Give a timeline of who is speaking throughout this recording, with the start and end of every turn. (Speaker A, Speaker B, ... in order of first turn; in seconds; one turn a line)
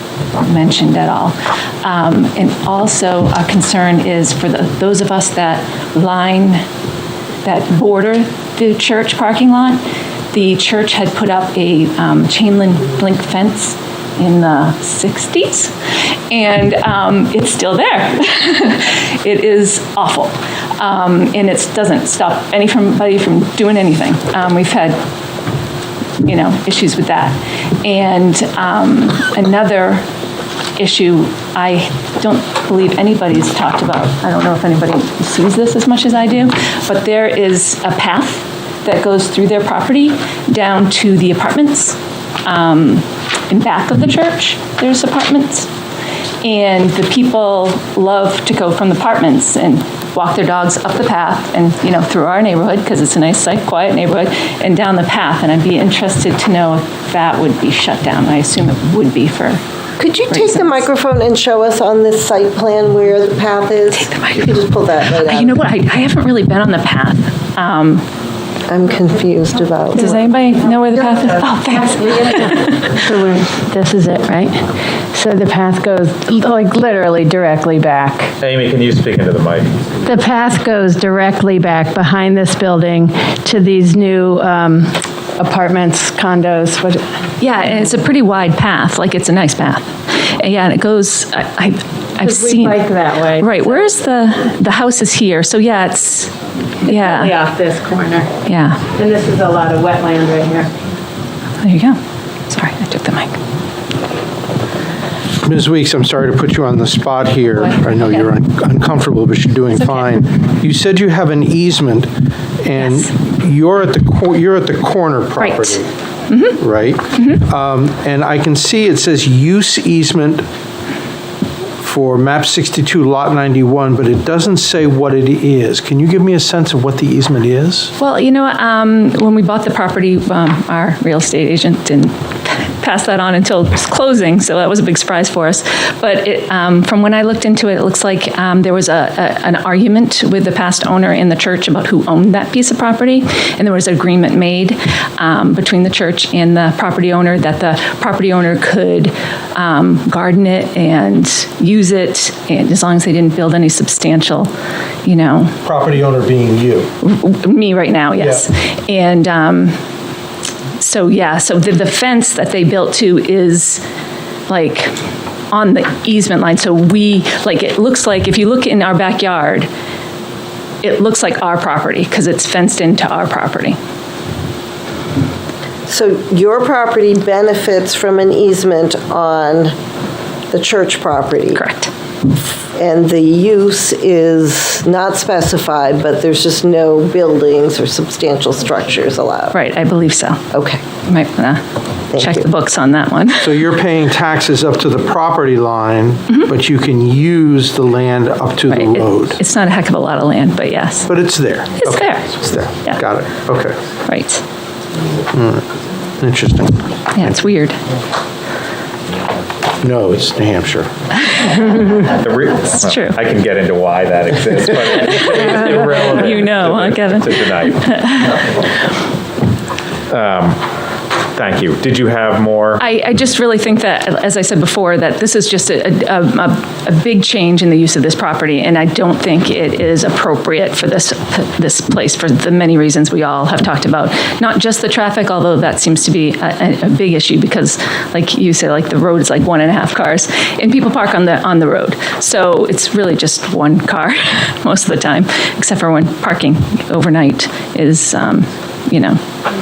Speaker A: 0.4-6.6
Speaker A: 7.4-15.7
Speaker A: 16.3-25.0
Speaker A: 26.2-30.0
Speaker A: 30.8-45.7
Speaker A: 46.4-59.6
Speaker B: 60.0-65.6
Speaker A: 60.3-60.8
Speaker A: 63.9-68.1
Speaker B: 68.7-70.2
Speaker A: 70.0-72.9
Speaker C: 72.2-78.3
Speaker D: 78.4-79.7
Speaker C: 80.0-87.0
Speaker A: 87.4-96.3
Speaker C: 92.2-93.6
Speaker C: 96.8-98.3
Speaker A: 96.9-97.4
Speaker A: 98.5-98.9
Speaker C: 98.9-100.7
Speaker A: 101.6-103.4
Speaker E: 105.4-115.9
Speaker A: 112.8-113.1
Speaker A: 115.4-116.6
Speaker E: 116.6-120.5
Speaker E: 121.8-127.9
Speaker A: 128.0-154.5
Speaker A: 155.1-155.5
Speaker E: 155.6-156.9
Speaker A: 157.0-159.8
Speaker E: 158.2-158.5
Speaker A: 160.8-163.8
Speaker A: 164.5-164.9
Speaker A: 165.5-169.7
Speaker A: 170.8-173.8
Speaker B: 175.9-179.7
Speaker B: 180.5-181.6
Speaker A: 181.6-181.9
Speaker B: 182.8-189.6
Speaker A: 189.5-190.4
Speaker B: 190.5-190.8
Speaker A: 191.0-191.6
Speaker B: 192.1-192.5
Speaker A: 192.2-193.6
Speaker E: 193.4-199.4
Speaker A: 198.7-201.1
Speaker E: 201.1-203.8
Speaker A: 201.8-202.3
Speaker A: 204.1-204.4
Speaker E: 205.3-205.7
Speaker E: 206.2-206.9
Speaker A: 207.2-207.8
Speaker E: 209.8-210.9
Speaker D: 211.9-217.8
Speaker A: 212.8-213.2
Speaker A: 215.5-218.4
Speaker D: 220.1-220.6
Speaker D: 221.4-222.8
Speaker A: 222.8-249.2